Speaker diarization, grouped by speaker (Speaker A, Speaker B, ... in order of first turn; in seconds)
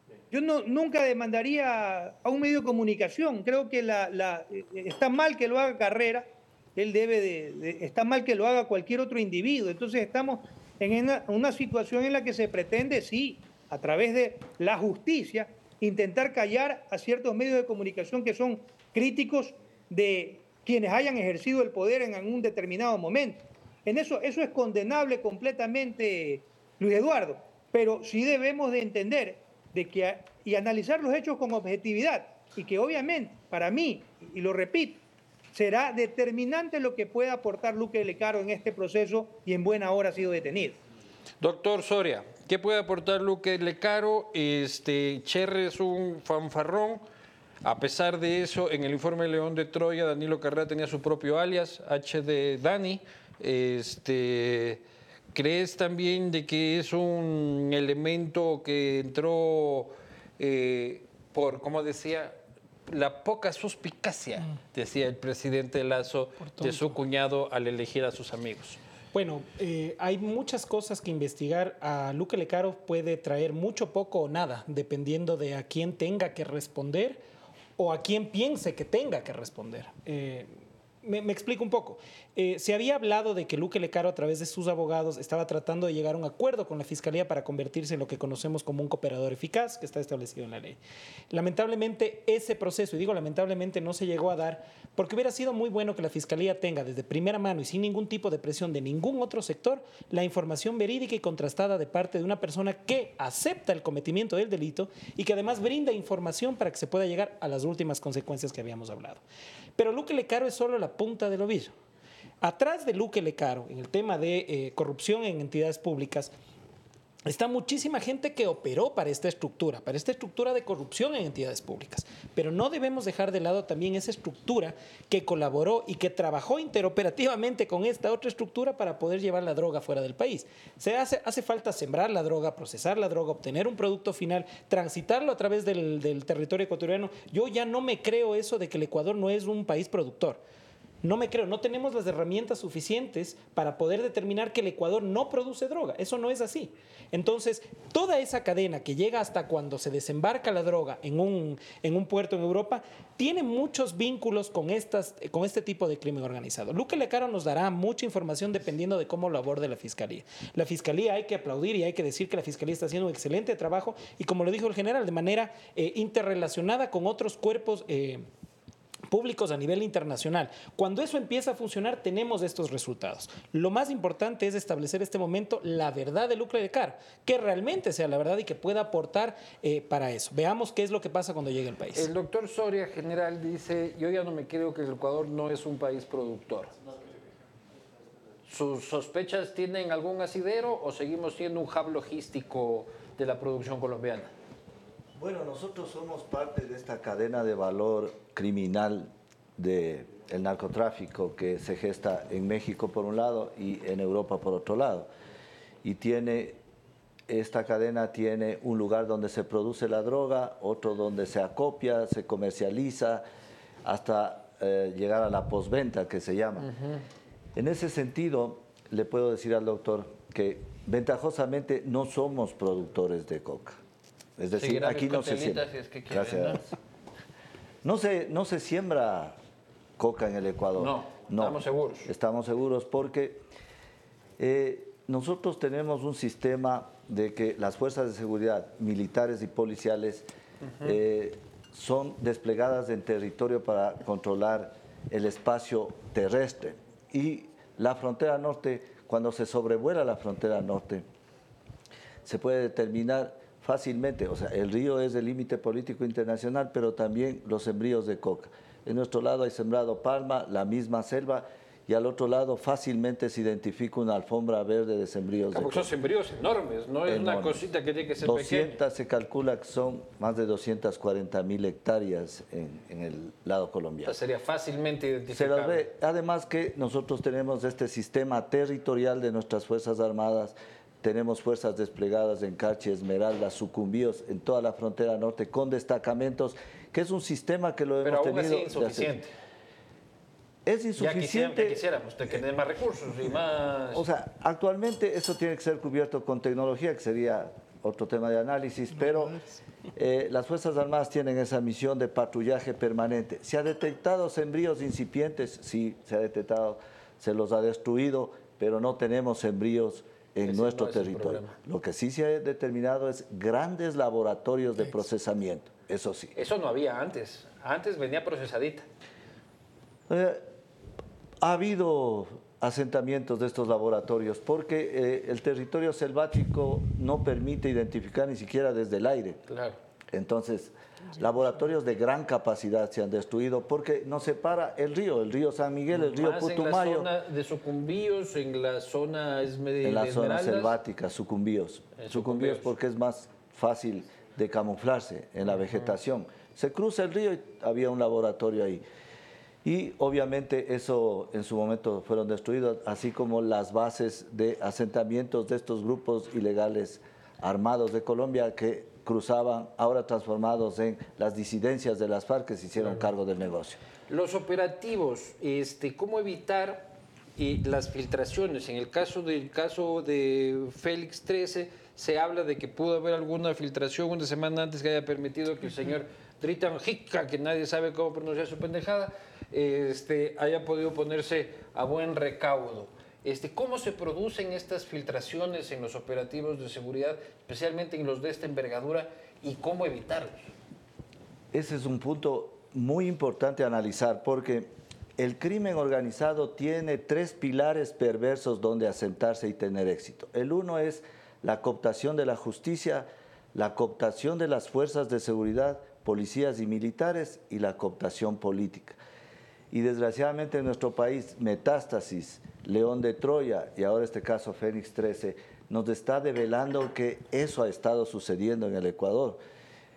Speaker A: 0.3-40.8
Speaker B: 41.4-47.0, 47.6-54.8, 55.3-62.4, 62.9-68.8, 181.9-186.7, 188.5-194.3, 216.6-217.0, 224.6-226.6, 230.8-232.1, 265.5-268.8, 274.0-275.9, 288.0-289.3, 291.0-294.0, 310.4-311.6, 316.4-318.9, 329.5-329.8, 335.9-340.8, 342.0-342.7, 364.1-390.5
Speaker C: 66.5-66.9, 69.1-77.2, 77.8-90.8, 91.3-109.2, 109.8-111.7, 112.4-116.3, 117.3-140.4, 141.0-168.3, 169.1-182.1
Speaker D: 195.2-205.1, 205.8-206.6, 207.3-213.2, 213.8-216.7, 217.5-223.8, 224.4-226.7, 227.8-229.4, 230.0-233.4, 234.4-240.2, 240.8-251.0, 252.2-265.9, 267.1-267.6, 268.2-274.1, 275.3-289.1, 290.6-291.8, 293.9-299.4, 299.9-316.3, 320.1-320.4, 321.4-329.4, 330.1-337.1, 339.8-348.8, 349.6-363.8, 391.5-409.0, 409.7-419.4